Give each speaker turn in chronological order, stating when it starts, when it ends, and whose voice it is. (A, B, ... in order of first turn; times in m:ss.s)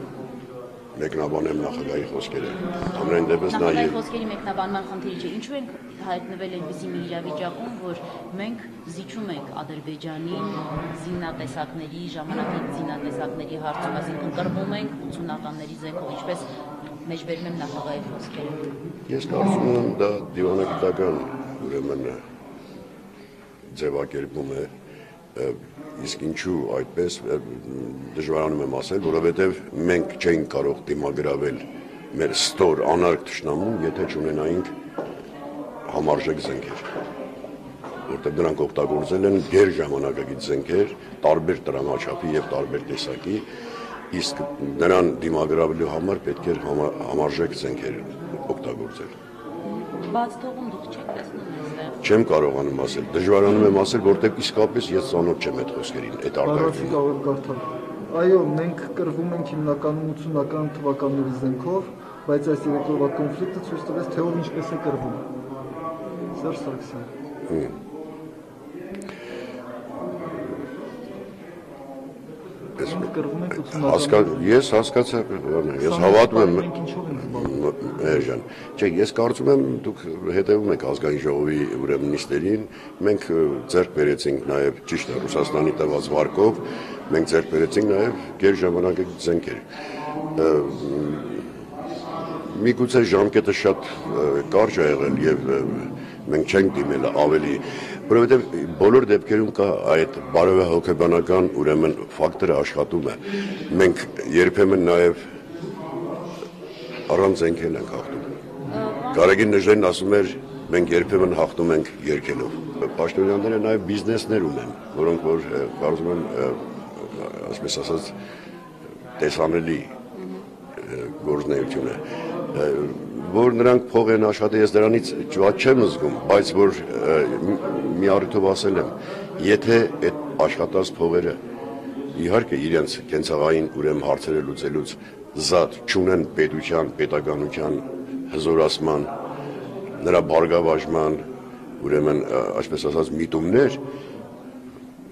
0:00.9-0:04.0 A
0:03.5-0:16.4 B
0:17.0-0:18.6 B
0:19.1-0:22.2 A
0:23.7-0:24.7 A
0:25.3-0:34.7 A
0:35.9-0:36.8 A
0:38.1-0:43.4 A
0:44.1-0:49.1 A
0:49.6-0:52.0 B
0:52.0-0:57.0 A
0:56.4-1:05.2 C
1:06.3-1:07.1 C
1:07.5-1:07.7 A
1:12.8-1:14.4 C
1:13.7-1:29.6 A
1:15.8-1:17.6 C
1:30.3-1:31.4 A
1:32.5-1:45.2 A
1:47.1-1:48.3 A
1:48.7-1:49.4 B
1:49.1-1:58.1 A
1:59.2-1:59.9 A
2:00.1-2:00.4 B
2:00.8-2:02.0 A
2:02.5-2:11.4 A
2:12.1-2:19.1 A
2:20.0-2:21.2 A
2:21.8-2:23.8 A